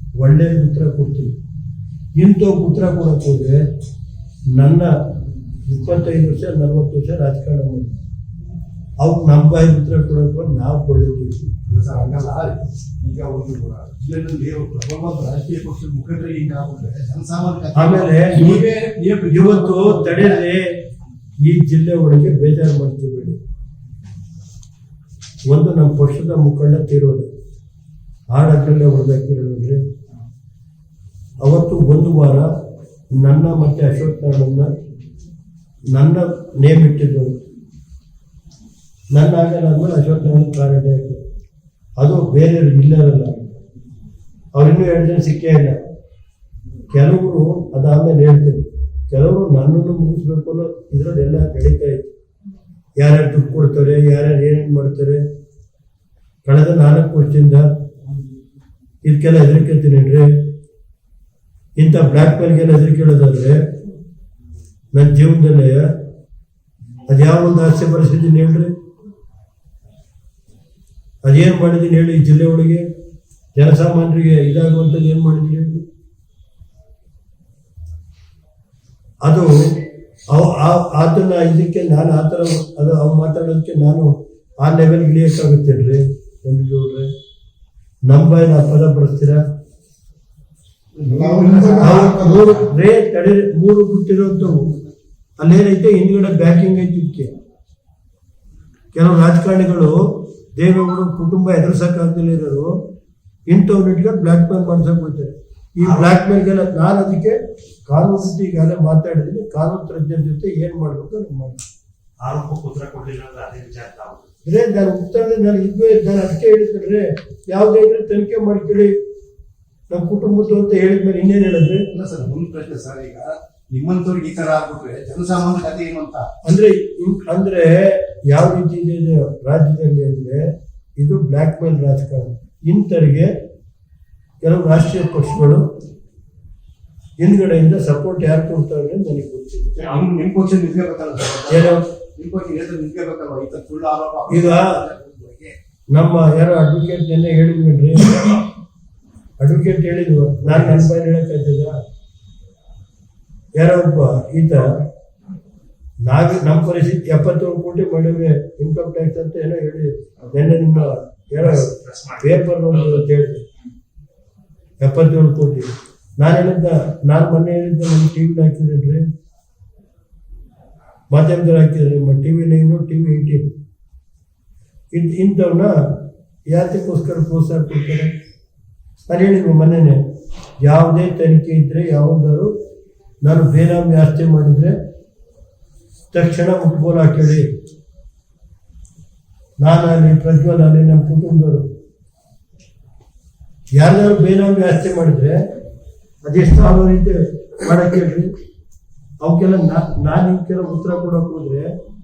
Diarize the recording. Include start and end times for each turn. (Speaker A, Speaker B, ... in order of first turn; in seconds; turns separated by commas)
Speaker A: 0.2-1.3, Speaker A: 2.1-3.6, Speaker A: 4.5-4.9, Speaker A: 5.6-8.0, Speaker A: 9.0-11.5, Speaker B: 11.7-20.4, Speaker A: 17.7-18.6, Speaker A: 19.3-20.7, Speaker A: 21.4-23.4, Speaker A: 25.5-27.3, Speaker A: 28.3-29.8, Speaker A: 31.4-32.5, Speaker A: 33.2-34.7, Speaker A: 35.9-37.4, Speaker A: 39.1-41.2, Speaker A: 42.0-43.5, Speaker A: 44.5-45.8, Speaker A: 46.9-52.1, Speaker A: 53.0-55.2, Speaker A: 56.4-57.6, Speaker A: 59.0-60.2, Speaker A: 61.8-63.6, Speaker A: 64.9-65.9, Speaker A: 67.1-68.7, Speaker A: 71.2-72.8, Speaker A: 73.5-75.8, Speaker A: 79.2-79.8, Speaker A: 80.3-87.1, Speaker A: 88.1-89.4, Speaker B: 91.0-92.5, Speaker A: 91.8-94.8, Speaker A: 95.4-97.3, Speaker A: 98.9-102.7, Speaker A: 103.5-111.6, Speaker C: 112.2-114.2, Speaker A: 114.4-118.9, Speaker A: 119.9-121.8, Speaker B: 121.9-126.3, Speaker A: 126.4-130.4, Speaker A: 131.0-133.3, Speaker A: 134.4-135.6, Speaker A: 137.2-139.8, Speaker B: 139.8-145.6, Speaker A: 141.5-141.8, Speaker A: 144.3-144.7, Speaker A: 145.9-148.4, Speaker A: 149.4-151.8, Speaker A: 153.6-154.7, Speaker A: 156.1-163.4, Speaker C: 161.4-163.0, Speaker A: 164.8-169.0, Speaker A: 171.1-173.5, Speaker A: 174.9-175.7, Speaker A: 176.5-178.1, Speaker A: 179.0-180.0, Speaker A: 180.6-182.5, Speaker A: 183.2-184.8, Speaker A: 186.1-187.5, Speaker A: 189.6-191.6, Speaker A: 193.8-195.4, Speaker A: 196.2-198.3, Speaker A: 199.2-201.7